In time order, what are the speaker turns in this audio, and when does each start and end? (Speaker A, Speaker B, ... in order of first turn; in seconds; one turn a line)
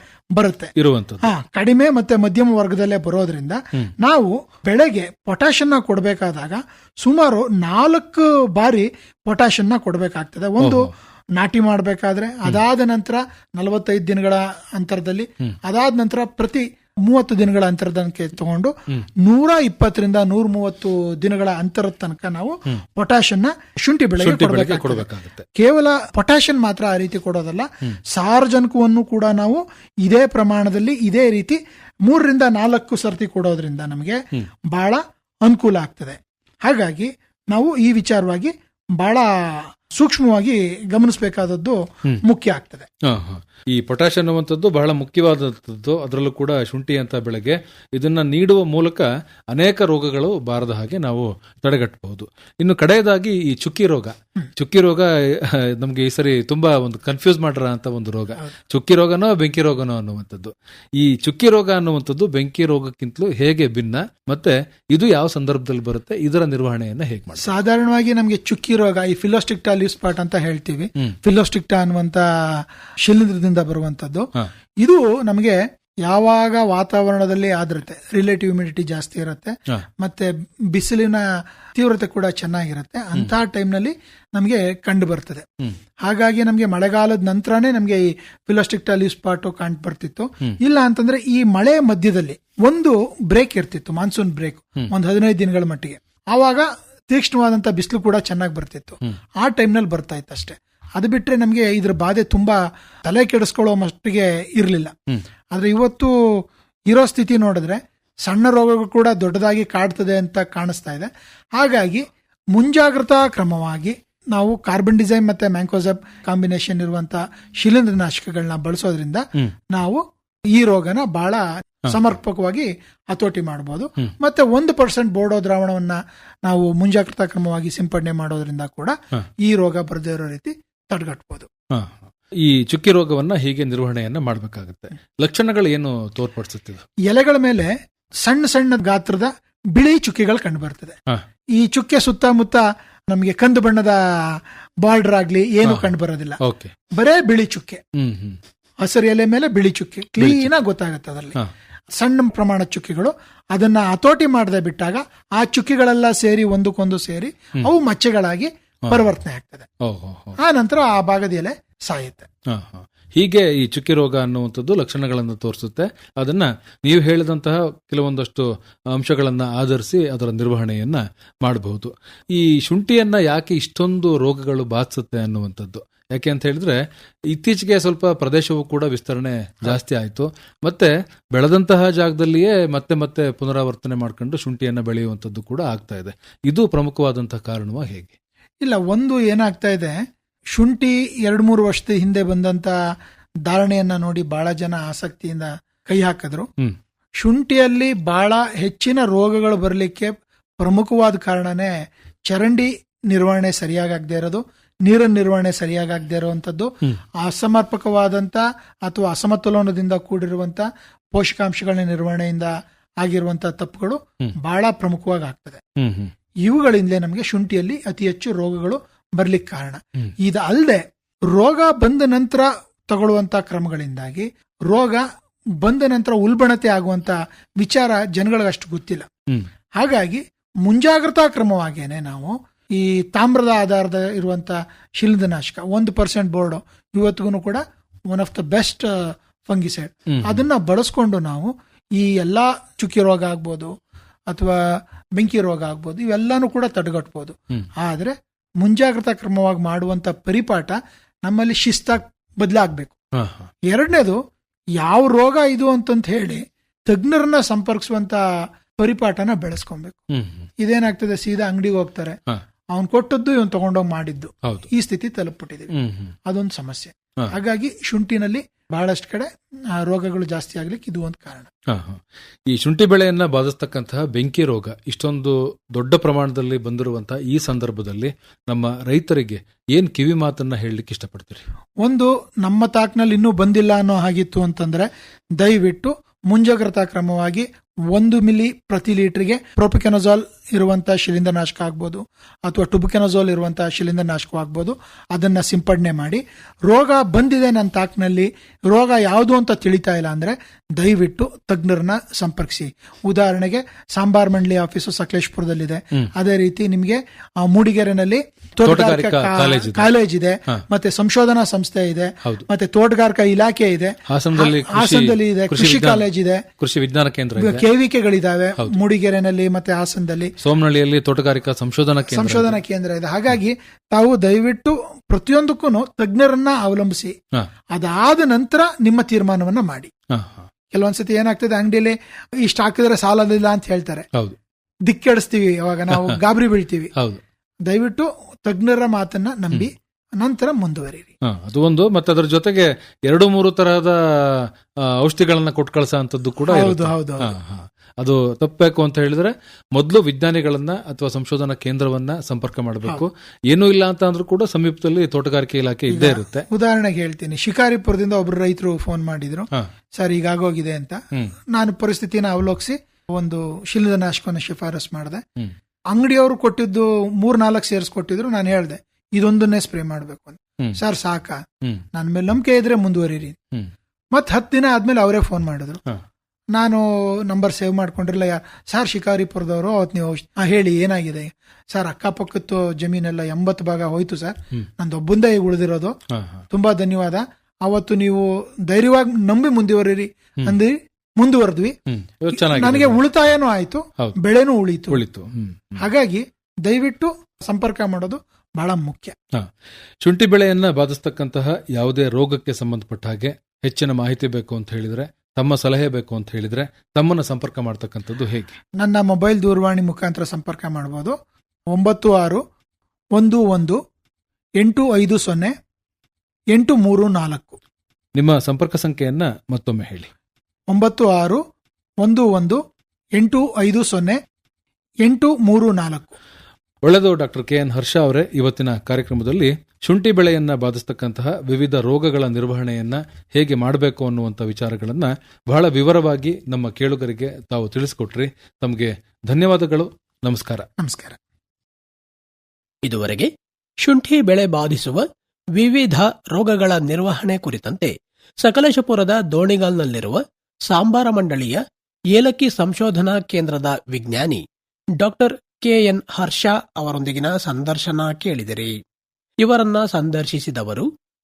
Speaker A: 0.4-34.2
Speaker B: 0.8-1.3
Speaker B: 10.6-10.9
Speaker B: 24.2-25.4
Speaker A: 34.7-42.9
Speaker B: 43.0-67.5
Speaker A: 67.4-74.3
Speaker A: 74.8-85.5
Speaker A: 86.0-105.0
Speaker A: 105.5-106.1
Speaker A: 106.9-120.0
Speaker A: 120.5-131.5
Speaker B: 131.7-136.8
Speaker A: 137.1-141.0
Speaker A: 141.5-146.4
Speaker B: 145.7-146.7
Speaker A: 146.9-147.8
Speaker B: 147.9-148.4
Speaker A: 148.8-151.4
Speaker B: 150.2-150.5
Speaker A: 151.9-159.7
Speaker B: 159.8-160.4
Speaker A: 160.4-162.3
Speaker B: 162.5-188.1
Speaker A: 188.6-190.0
Speaker A: 190.5-192.8
Speaker A: 193.5-196.5
Speaker A: 197.2-215.6
Speaker B: 215.8-216.1
Speaker A: 216.4-225.0
Speaker A: 225.6-229.1
Speaker A: 229.8-243.7
Speaker B: 240.1-240.4
Speaker A: 244.3-244.6
Speaker A: 245.2-252.9
Speaker B: 253.2-253.5
Speaker A: 253.7-254.2
Speaker A: 254.8-258.2
Speaker A: 258.8-260.0
Speaker B: 260.1-260.5
Speaker A: 260.6-262.2
Speaker A: 262.7-265.7
Speaker B: 265.7-266.1
Speaker A: 266.3-271.5
Speaker B: 271.7-281.4
Speaker A: 281.8-316.4
Speaker B: 308.6-309.9
Speaker B: 314.1-317.7
Speaker A: 317.4-320.3
Speaker B: 320.4-322.6
Speaker A: 322.1-327.1
Speaker A: 327.7-329.9
Speaker B: 330.1-330.5
Speaker A: 330.7-334.1
Speaker A: 334.9-336.9
Speaker B: 335.9-336.2
Speaker B: 336.9-337.2
Speaker A: 337.7-341.1
Speaker B: 341.2-356.5
Speaker A: 346.5-347.4
Speaker A: 355.9-365.2
Speaker A: 365.9-371.4
Speaker A: 371.9-373.4
Speaker A: 374.1-375.8
Speaker A: 376.5-386.0
Speaker B: 386.1-386.4
Speaker A: 386.5-391.8
Speaker B: 391.9-393.1
Speaker A: 392.3-395.0
Speaker B: 394.9-395.8
Speaker A: 395.8-399.2
Speaker B: 400.0-408.6
Speaker A: 408.8-411.2
Speaker A: 411.7-412.4
Speaker A: 413.1-413.8
Speaker A: 414.6-415.6
Speaker A: 416.5-417.6
Speaker B: 418.1-420.1
Speaker A: 420.7-421.4
Speaker A: 422.0-422.6
Speaker A: 423.2-424.2
Speaker A: 425.1-426.1
Speaker B: 426.8-440.7
Speaker A: 440.8-441.2
Speaker C: 442.8-443.3
Speaker C: 443.8-454.4
Speaker C: 455.0-458.8
Speaker C: 459.4-460.9